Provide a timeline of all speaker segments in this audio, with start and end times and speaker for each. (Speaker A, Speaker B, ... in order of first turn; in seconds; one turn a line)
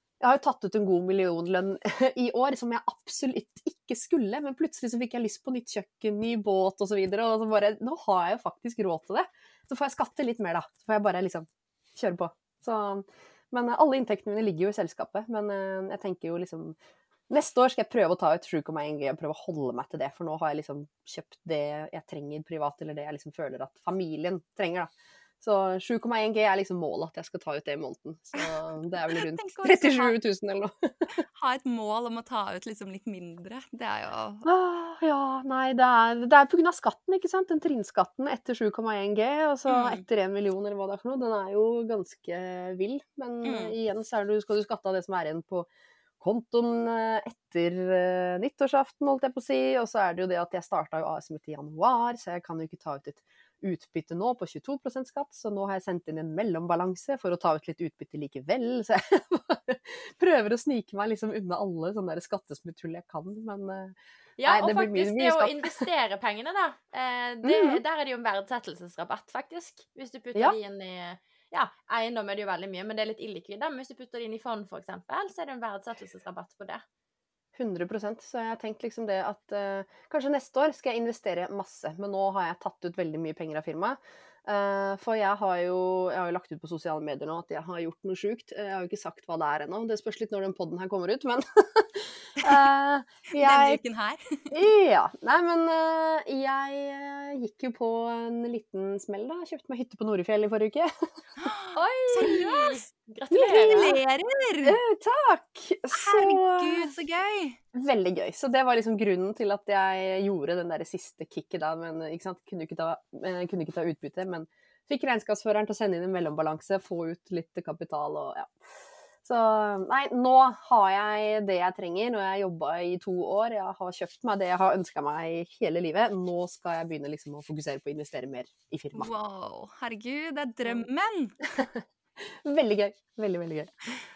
Speaker A: 0.2-16.8
Speaker A: 17.3-24.9
Speaker A: 25.4-31.2
Speaker B: 29.1-30.2
Speaker B: 31.2-34.5
Speaker A: 34.5-45.7
Speaker B: 39.7-40.0
Speaker B: 43.4-43.7
Speaker A: 46.2-63.9
Speaker C: 64.4-76.8
Speaker A: 64.5-65.8
Speaker A: 67.4-67.8
Speaker A: 77.5-93.8
Speaker B: 93.3-94.5
Speaker A: 94.5-100.9
Speaker B: 101.4-102.8
Speaker C: 101.8-104.0
Speaker A: 103.3-103.9
Speaker B: 103.4-104.8
Speaker A: 104.6-107.0
Speaker B: 105.9-107.6
Speaker A: 107.7-118.7
Speaker A: 119.2-129.1
Speaker B: 128.9-131.7
Speaker A: 132.2-133.7